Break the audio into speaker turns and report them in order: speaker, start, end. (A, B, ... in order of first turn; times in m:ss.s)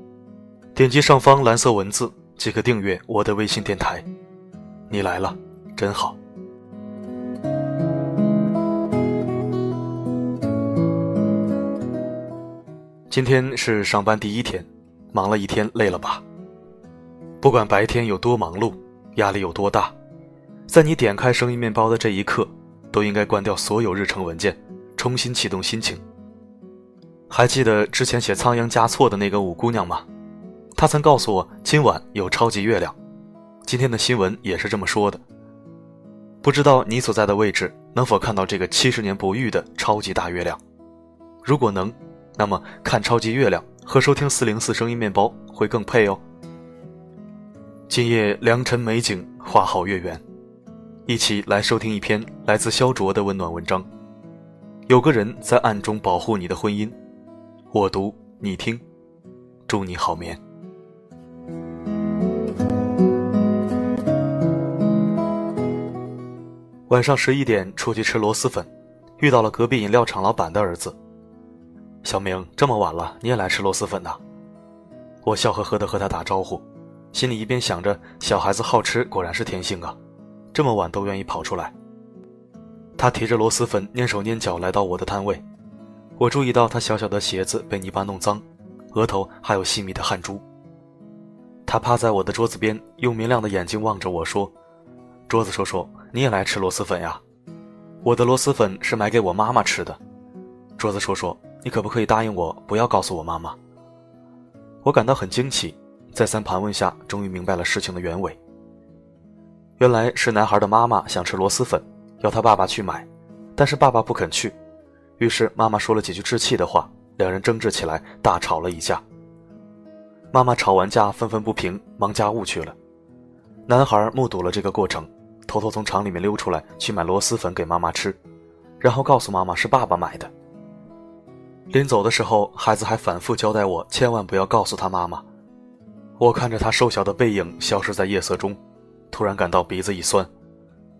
0:00.7-0:04.0 A
0:04.9-0:06.2 A
0:13.1-0:16.2 A
0:17.4-0:19.9 A
0:20.7-0:26.0 A
0:27.3-0:30.0 A
0:30.8-0:32.9 A
0:33.6-0:35.2 A
0:36.4-0:40.6 A
0:41.4-0:46.2 A
0:47.9-0:50.2 A
0:51.1-0:53.8 A
0:54.9-0:56.9 A
0:57.7-0:58.8 A
0:59.7-1:00.4 A
1:06.9-1:08.7 A
1:09.2-1:11.0 A
1:12.0-1:14.2 A
1:15.2-1:20.0 A
1:20.5-1:21.7 A
1:23.0-1:25.4 A
1:26.2-1:30.4 A
1:31.6-1:34.5 A
1:35.3-1:37.2 A
1:38.0-1:40.0 A
1:40.8-1:43.6 A
1:44.8-1:48.4 A
1:49.8-1:54.5 A
1:55.2-1:59.0 A
2:00.3-2:02.8 A
2:03.7-2:08.2 A
2:08.8-2:10.3 A
2:11.7-2:15.2 A
2:16.2-2:18.6 A
2:19.1-2:20.3 A